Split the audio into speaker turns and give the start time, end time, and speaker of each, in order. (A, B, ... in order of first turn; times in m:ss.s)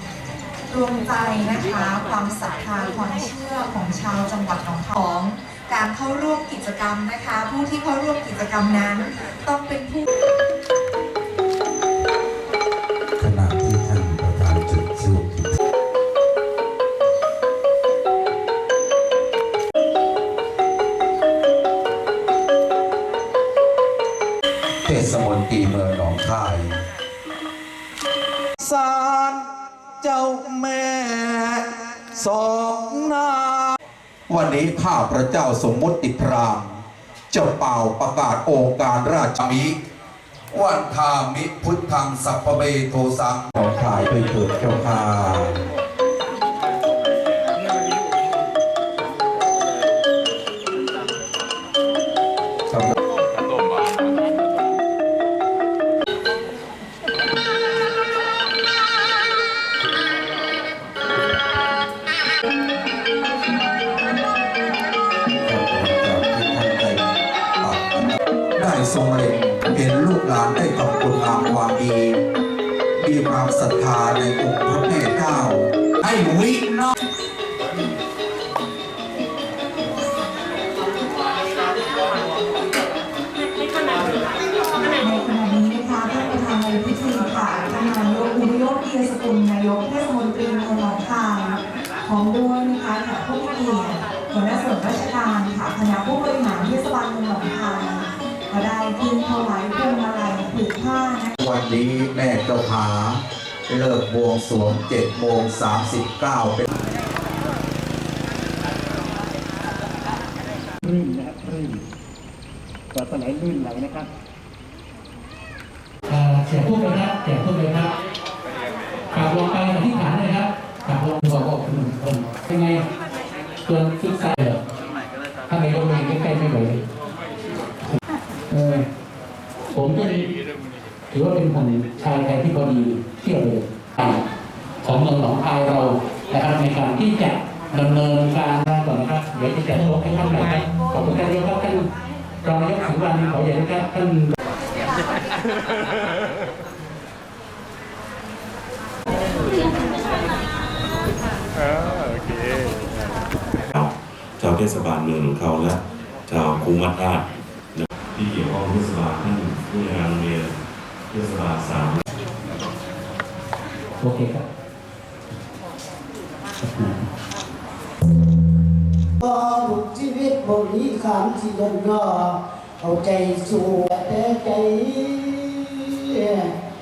0:00.7-0:10.0 A
0:13.2-0:15.5 B
0:24.8-0:26.8 B
0:28.6-0:29.5 B
0:30.0-0:33.7 B
0:34.3-0:36.8 B
0:37.3-0:39.7 B
0:40.5-0:45.6 B
1:05.4-1:07.0 B
1:07.6-1:12.2 B
1:13.0-1:16.9 B
1:25.0-1:41.3 A
1:41.4-1:46.7 B
1:50.8-1:51.8 C
1:52.9-1:54.1 C
1:56.1-1:57.9 D
1:59.1-2:02.8 D
2:03.7-2:04.6 D
2:05.5-2:06.8 D
2:08.5-2:08.9 D
2:09.7-2:10.3 D
2:11.1-2:14.2 D
2:14.8-2:21.9 D
2:22.4-2:24.3 D
2:33.7-2:40.6 E
2:41.1-2:42.0 E
2:44.0-2:44.4 D
2:46.6-2:47.1 D
2:49.2-2:56.5 F